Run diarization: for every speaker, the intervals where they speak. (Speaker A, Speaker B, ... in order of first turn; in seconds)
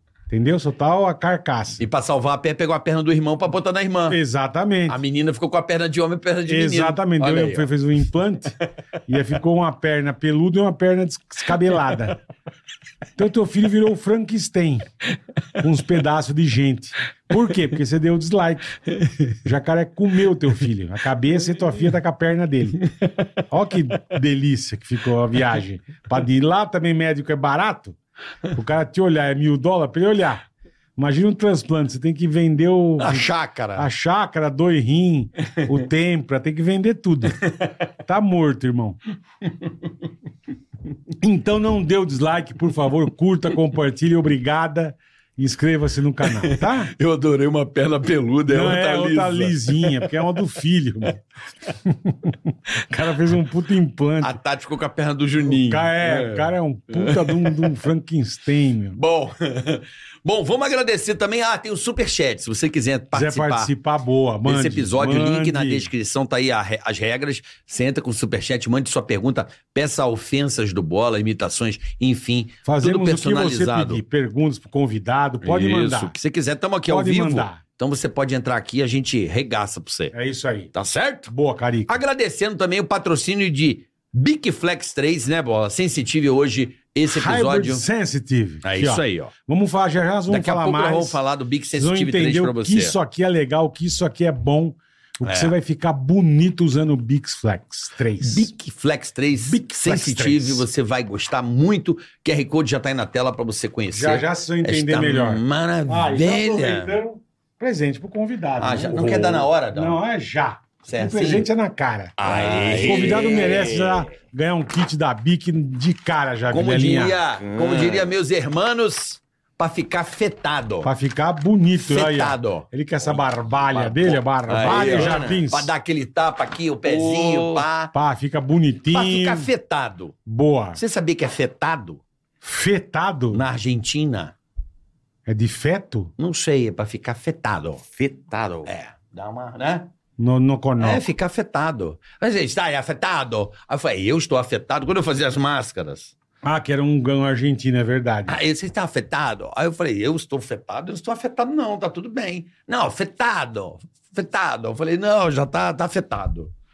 Speaker A: 0.3-1.8, 4.1-5.0, 6.5-12.2, 13.2-14.9, 15.6-22.8, 23.4-27.9, 28.5-30.4, 31.0-37.4, 38.0-39.0, 41.2-46.9, 48.5-51.2, 51.8-54.4, 55.5-59.0, 63.1-65.9, 72.6-76.2, 76.9-77.6, 80.1-80.7, 81.3-82.0, 87.1-91.2, 91.8-98.5, 99.4-100.7, 103.9-117.2, 120.8-125.7, 127.9-129.5, 130.2-130.8, 132.4-133.4, 135.2-136.1, 140.2-141.0, 146.4-148.4
Speaker B: 1.8-4.2, 4.9-7.7, 33.0-33.9, 46.2-50.1, 54.2-57.6, 58.9-63.7, 64.5-74.0, 75.4-80.1, 80.7-81.3, 81.9-87.8, 88.6-89.3, 90.3-93.0, 95.2-95.5, 98.2-107.0, 108.6-110.0, 110.8-111.5, 112.2-114.1, 116.5-120.9, 121.8-127.9, 128.9-130.2, 130.8-132.0, 133.3-134.3, 136.2-137.9, 138.7-139.9, 140.8-146.1, 148.3-156.5
Speaker C: 112.2-113.7, 117.4-118.1, 124.6-125.4, 126.8-127.7, 138.0-138.7